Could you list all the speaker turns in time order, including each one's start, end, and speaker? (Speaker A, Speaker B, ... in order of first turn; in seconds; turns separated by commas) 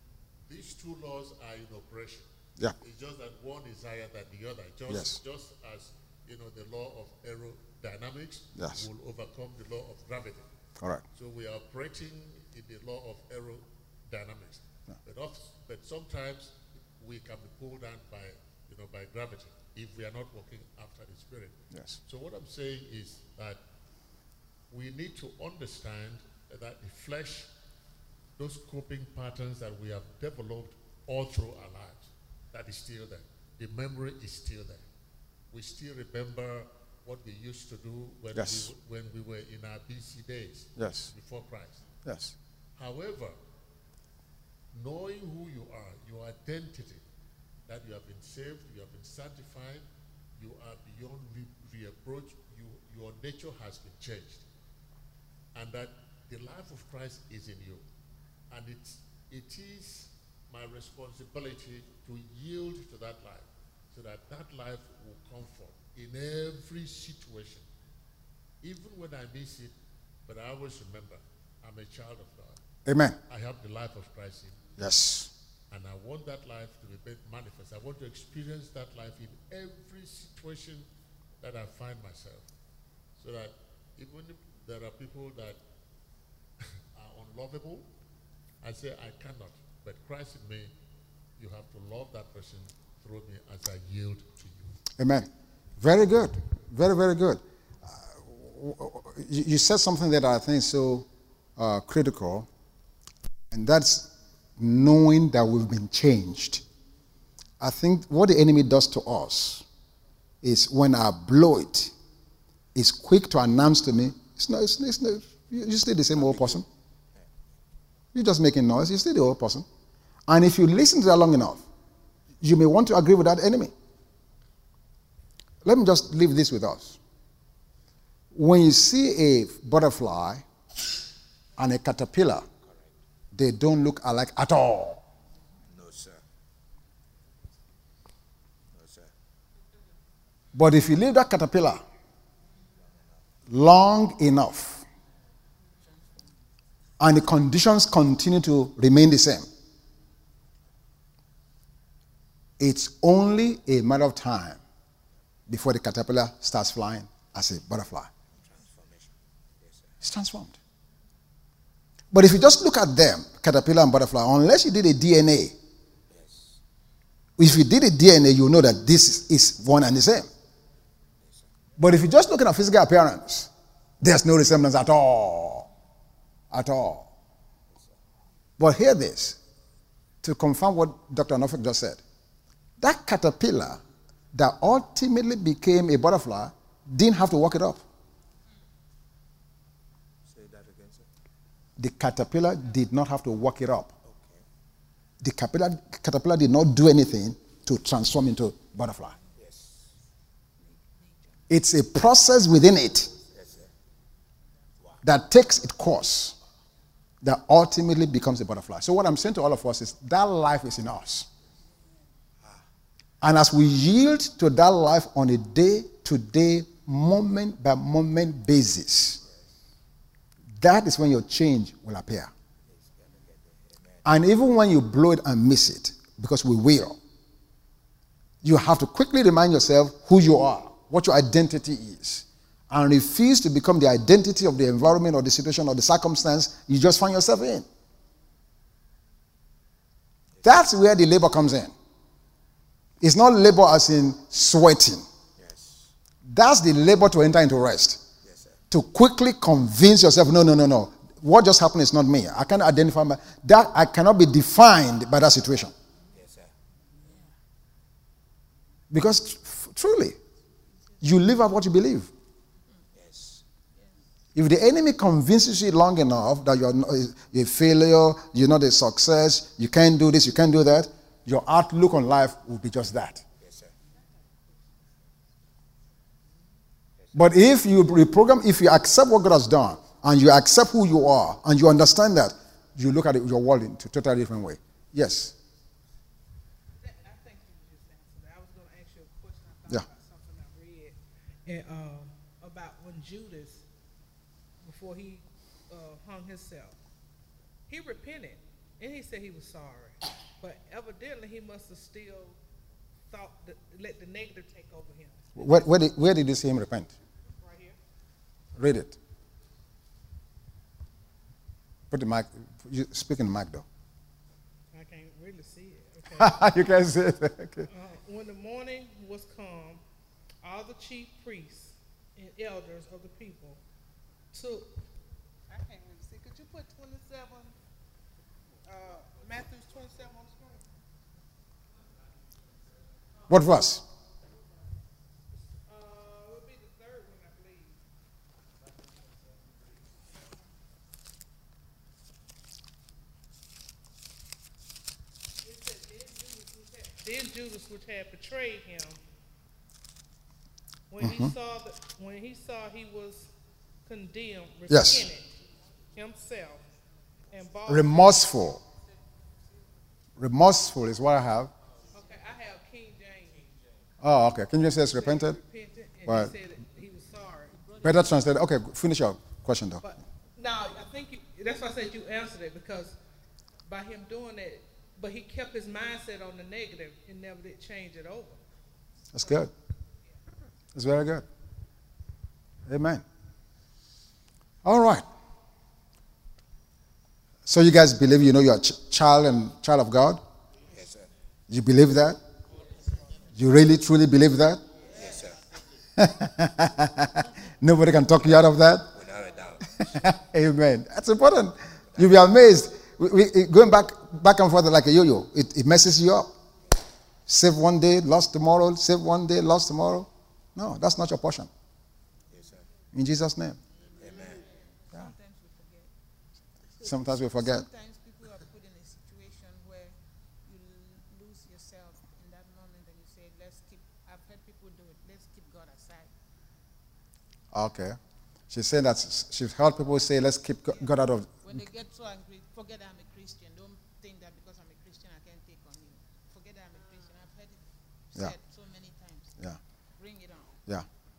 Speaker A: 0.5-10.5, Speaker B: 4.9-5.2, Speaker B: 8.6-8.9, Speaker B: 10.8-11.0, Speaker A: 11.1-23.6, Speaker B: 21.7-22.0, Speaker A: 24.7-27.5, Speaker A: 28.4-34.9, Speaker A: 35.5-41.9, Speaker B: 38.4-38.7, Speaker B: 40.8-41.1, Speaker B: 42.0-42.3, Speaker A: 42.8-43.4, Speaker A: 44.7-47.0, Speaker A: 47.7-49.9, Speaker A: 50.4-54.5, Speaker A: 55.5-57.9, Speaker A: 58.5-67.7, Speaker A: 68.6-69.8, Speaker A: 70.3-72.6, Speaker B: 72.9-73.2, Speaker A: 73.3-74.6, Speaker B: 74.8-75.3, Speaker A: 75.7-80.9, Speaker A: 81.4-82.5, Speaker A: 83.2-85.6, Speaker A: 86.6-87.9, Speaker A: 88.6-90.7, Speaker A: 91.4-94.8, Speaker B: 95.0-95.3, Speaker B: 95.8-97.4, Speaker B: 98.3-101.1, Speaker B: 101.6-102.5, Speaker B: 103.5-106.6, Speaker B: 107.6-109.7, Speaker B: 110.4-111.9, Speaker B: 112.8-116.7, Speaker B: 118.1-119.7, Speaker B: 120.3-121.6, Speaker B: 122.4-123.7, Speaker B: 125.6-127.0, Speaker B: 128.3-130.4, Speaker B: 131.6-132.5, Speaker C: 132.6-132.9, Speaker B: 133.3-135.0, Speaker C: 135.6-136.2, Speaker C: 138.7-139.1, Speaker B: 140.5-141.8, Speaker C: 142.8-143.2, Speaker B: 143.5-144.8, Speaker D: 145.8-146.4, Speaker B: 147.0-149.5, Speaker B: 152.6-154.6, Speaker B: 155.5-158.1, Speaker C: 158.3-160.0, Speaker B: 160.0-160.6, Speaker B: 162.1-165.6, Speaker C: 166.1-166.6, Speaker B: 167.4-170.3, Speaker C: 171.2-171.5, Speaker B: 171.8-173.5, Speaker B: 174.0-175.7, Speaker B: 176.5-177.1, Speaker C: 177.7-178.0, Speaker B: 178.6-179.4, Speaker B: 180.2-182.0, Speaker B: 182.8-183.8, Speaker B: 184.3-187.8, Speaker C: 190.2-191.1, Speaker B: 191.8-193.9, Speaker C: 194.0-194.4, Speaker B: 195.2-199.2, Speaker C: 199.3-199.9, Speaker D: 200.6-201.5, Speaker B: 201.5-203.1, Speaker C: 203.3-203.7, Speaker B: 205.0-206.3, Speaker B: 207.2-211.3, Speaker B: 213.2-219.2, Speaker B: 220.6-222.3, Speaker C: 222.7-224.1, Speaker B: 224.1-227.0, Speaker B: 228.4-237.7, Speaker B: 240.4-241.7, Speaker B: 243.0-245.1, Speaker C: 245.4-245.9, Speaker B: 246.2-248.0, Speaker C: 248.2-248.6, Speaker B: 248.7-255.7, Speaker C: 256.1-256.5, Speaker D: 256.9-257.3, Speaker B: 258.9-260.2, Speaker B: 261.0-262.1, Speaker C: 262.9-263.4, Speaker B: 264.4-273.2, Speaker C: 273.4-273.7, Speaker B: 277.1-285.3, Speaker E: 286.8-293.6, Speaker E: 294.6-296.8, Speaker E: 297.7-302.4, Speaker E: 303.1-305.8, Speaker B: 305.4-306.9, Speaker E: 307.2-307.8, Speaker B: 308.6-308.9, Speaker B: 311.9-313.6, Speaker E: 314.7-316.9, Speaker B: 316.1-317.7, Speaker E: 317.7-319.8, Speaker E: 320.4-323.6, Speaker E: 324.3-324.8, Speaker E: 325.5-327.6, Speaker E: 328.6-330.7, Speaker B: 333.3-333.8, Speaker E: 335.7-337.8, Speaker E: 345.4-349.0, Speaker E: 350.9-353.3, Speaker B: 351.0-351.3, Speaker E: 353.9-355.3, Speaker B: 354.7-355.1, Speaker E: 355.9-356.6, Speaker E: 357.3-358.2, Speaker B: 357.7-358.6, Speaker B: 360.2-361.5, Speaker E: 361.9-363.6, Speaker B: 364.0-365.4, Speaker E: 364.8-367.7, Speaker B: 366.1-366.4, Speaker B: 367.8-369.8, Speaker E: 369.8-373.0, Speaker E: 373.7-378.4, Speaker B: 379.1-379.5, Speaker E: 379.2-379.5, Speaker B: 380.8-381.3, Speaker B: 382.7-383.0, Speaker B: 384.6-385.1, Speaker B: 387.5-390.2, Speaker C: 390.7-391.1, Speaker B: 391.5-392.2, Speaker B: 393.3-394.6, Speaker C: 394.9-395.4, Speaker B: 396.0-398.9, Speaker C: 398.9-399.9, Speaker B: 399.9-406.3, Speaker B: 407.3-411.5, Speaker C: 412.3-412.7, Speaker B: 412.9-413.6, Speaker D: 413.8-415.9, Speaker C: 414.0-414.4, Speaker D: 416.8-426.1, Speaker B: 416.8-417.6, Speaker B: 427.5-428.0, Speaker B: 428.5-431.6, Speaker D: 431.4-439.4, Speaker D: 440.0-440.6